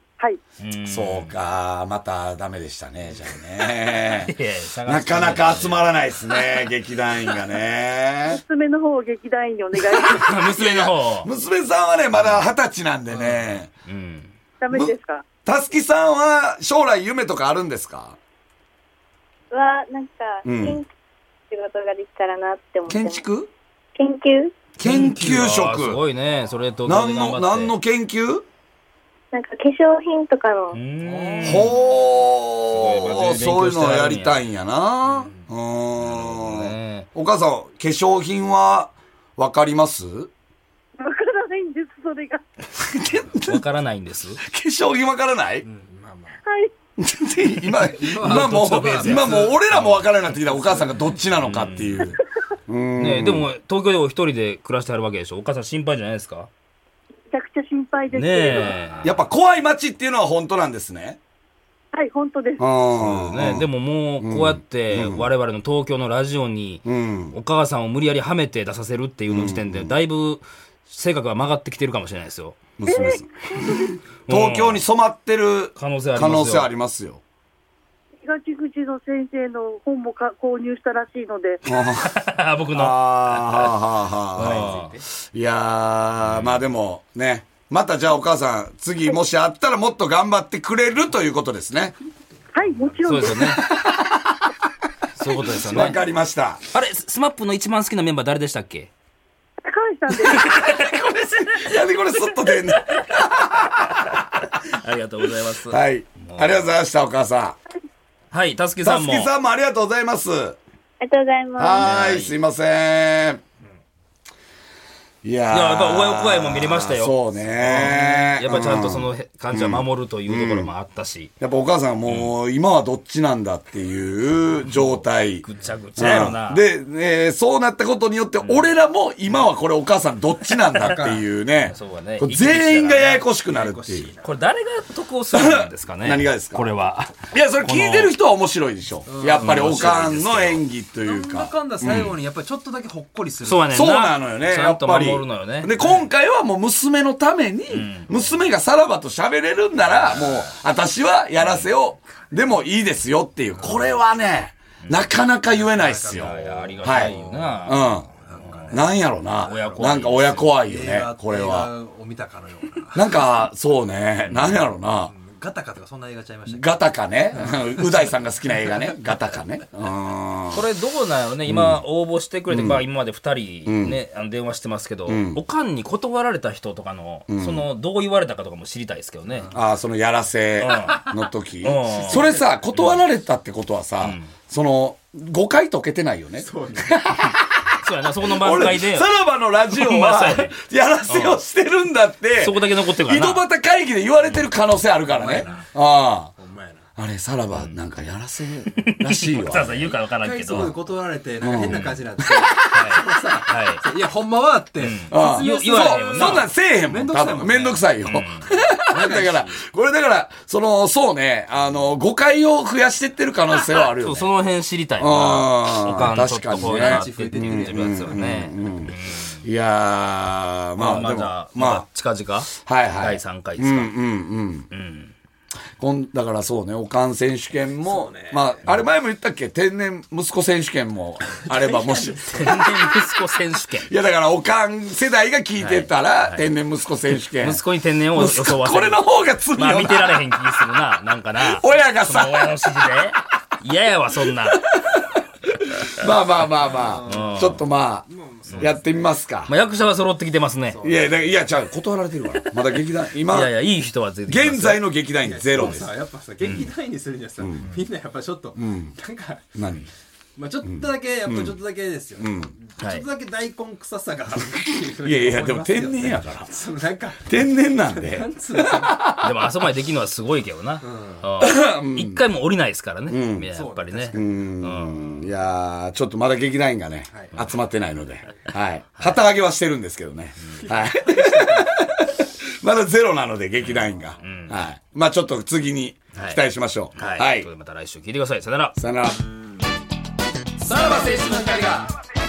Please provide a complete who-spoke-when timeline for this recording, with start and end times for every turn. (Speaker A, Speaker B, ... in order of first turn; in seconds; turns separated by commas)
Speaker A: 0.6-1.4, Speaker B: 0.9-4.3, Speaker A: 4.0-6.0, Speaker B: 4.9-8.4, Speaker C: 8.3-10.4, Speaker A: 10.1-11.3, Speaker B: 10.5-13.7, Speaker A: 12.2-12.4, Speaker A: 13.9-14.3, Speaker C: 14.6-15.2, Speaker B: 14.7-18.2, Speaker D: 19.5-20.9, Speaker B: 20.4-20.8, Speaker D: 21.5-23.2, Speaker B: 22.9-23.5, Speaker D: 24.0-24.6, Speaker B: 24.8-26.0, Speaker A: 24.8-27.8, Speaker E: 24.9-25.2, Speaker B: 26.9-28.4, Speaker D: 29.3-30.8, Speaker A: 30.7-31.8, Speaker E: 31.0-31.8, Speaker B: 31.4-40.3, Speaker A: 32.7-34.4, Speaker E: 35.1-35.5, Speaker A: 36.0-37.1, Speaker C: 41.0-42.4, Speaker B: 42.9-43.6, Speaker A: 43.4-44.4, Speaker B: 44.4-45.6, Speaker E: 45.6-46.4, Speaker C: 46.4-46.7, Speaker B: 47.0-53.5, Speaker E: 47.8-49.7, Speaker A: 48.3-50.1, Speaker E: 50.3-51.1, Speaker A: 51.4-52.2, Speaker A: 53.0-56.5, Speaker C: 57.3-58.8, Speaker A: 58.1-59.2, Speaker B: 59.0-61.2, Speaker C: 61.9-62.6, Speaker B: 62.6-63.7, Speaker A: 63.0-72.6, Speaker B: 64.2-65.3, Speaker B: 66.8-67.4, Speaker B: 69.3-70.0, Speaker B: 72.8-77.2, Speaker C: 72.8-74.0, Speaker A: 74.3-74.8, Speaker A: 75.8-76.7, Speaker C: 78.2-81.6, Speaker B: 81.7-82.1, Speaker A: 82.0-83.8, Speaker B: 82.7-84.8, Speaker A: 84.3-85.0, Speaker E: 84.6-85.0, Speaker B: 85.3-92.0, Speaker A: 86.2-86.7, Speaker C: 92.5-93.5, Speaker E: 92.7-93.0, Speaker A: 93.0-93.7, Speaker B: 93.3-94.4, Speaker A: 95.1-96.0, Speaker B: 95.4-96.6, Speaker A: 96.7-98.9, Speaker C: 99.6-100.4, Speaker A: 100.3-100.9, Speaker B: 100.3-104.2, Speaker A: 104.6-106.7, Speaker B: 105.7-107.6, Speaker A: 108.3-109.3, Speaker B: 108.8-110.6, Speaker D: 111.0-112.0, Speaker B: 111.6-113.4, Speaker A: 111.8-112.3, Speaker B: 115.2-120.7, Speaker A: 115.5-121.3, Speaker B: 121.4-134.1, Speaker A: 122.1-122.3, Speaker A: 124.7-126.7, Speaker A: 128.4-128.7, Speaker E: 130.8-131.3, Speaker A: 131.6-133.3, Speaker E: 133.4-134.4, Speaker A: 134.2-138.1, Speaker B: 135.3-136.7, Speaker B: 137.3-142.1, Speaker E: 139.1-140.4, Speaker A: 139.4-140.6, Speaker E: 141.0-143.8, Speaker A: 143.4-146.0, Speaker B: 143.7-158.1, Speaker A: 147.7-148.5, Speaker E: 153.6-153.9, Speaker A: 154.8-155.1, Speaker E: 155.4-159.0, Speaker A: 156.1-158.7, Speaker B: 158.7-161.7, Speaker A: 159.4-160.6, Speaker E: 160.6-163.2, Speaker B: 162.9-165.1, Speaker E: 165.1-166.8, Speaker B: 166.5-170.6, Speaker E: 167.4-168.2, Speaker A: 170.5-179.5, Speaker B: 171.5-171.8, Speaker B: 172.5-172.8, Speaker B: 173.7-174.0, Speaker B: 175.1-175.4, Speaker B: 177.3-177.7, Speaker B: 179.5-187.7, Speaker A: 180.6-181.1, Speaker A: 181.6-183.0, Speaker E: 182.1-182.5, Speaker A: 184.0-184.3, Speaker E: 186.4-187.0, Speaker A: 187.8-189.1, Speaker B: 188.2-196.3, Speaker A: 189.7-190.6, Speaker A: 191.1-191.4, Speaker A: 192.4-193.4, Speaker E: 195.1-195.7, Speaker E: 196.4-196.9, Speaker B: 197.0-199.9, Speaker A: 198.8-200.8, Speaker E: 199.8-207.9, Speaker B: 201.4-201.8, Speaker A: 201.5-202.0, Speaker A: 202.7-203.8, Speaker A: 204.8-206.5, Speaker B: 205.1-214.3, Speaker A: 208.0-208.5, Speaker E: 208.8-209.6, Speaker A: 214.0-219.4, Speaker B: 215.0-221.9, Speaker E: 216.5-218.4, Speaker A: 220.8-224.0, Speaker B: 222.6-224.7, Speaker A: 224.7-225.1, Speaker B: 225.8-232.9, Speaker E: 227.8-228.5, Speaker E: 231.5-232.5, Speaker A: 232.3-233.9, Speaker B: 233.9-237.6, Speaker A: 235.6-236.5, Speaker A: 237.4-244.7, Speaker B: 238.1-240.4, Speaker B: 241.4-243.0, Speaker B: 246.0-248.1, Speaker E: 246.7-248.9, Speaker A: 247.0-247.6, Speaker B: 248.6-249.5, Speaker A: 249.5-250.8, Speaker E: 250.7-251.2, Speaker B: 250.8-253.5, Speaker A: 252.4-254.8, Speaker B: 254.3-255.9, Speaker E: 255.2-259.5, Speaker A: 255.5-255.9, Speaker A: 256.4-256.7, Speaker B: 257.4-257.7, Speaker B: 258.6-258.9, Speaker B: 259.6-259.9, Speaker E: 260.4-269.0, Speaker B: 260.7-261.6, Speaker B: 262.2-262.5, Speaker A: 262.8-263.1, Speaker B: 265.0-266.5, Speaker B: 267.2-269.3, Speaker A: 269.2-275.1, Speaker E: 270.8-271.3, Speaker B: 271.4-272.2, Speaker B: 273.1-273.5, Speaker E: 273.5-274.2, Speaker B: 274.1-287.5, Speaker E: 277.1-277.4, Speaker A: 279.0-279.2, Speaker E: 280.7-281.8, Speaker A: 283.6-284.6, Speaker A: 286.1-286.4, Speaker A: 286.9-288.8, Speaker B: 288.8-289.2, Speaker B: 290.7-291.7, Speaker A: 290.7-291.7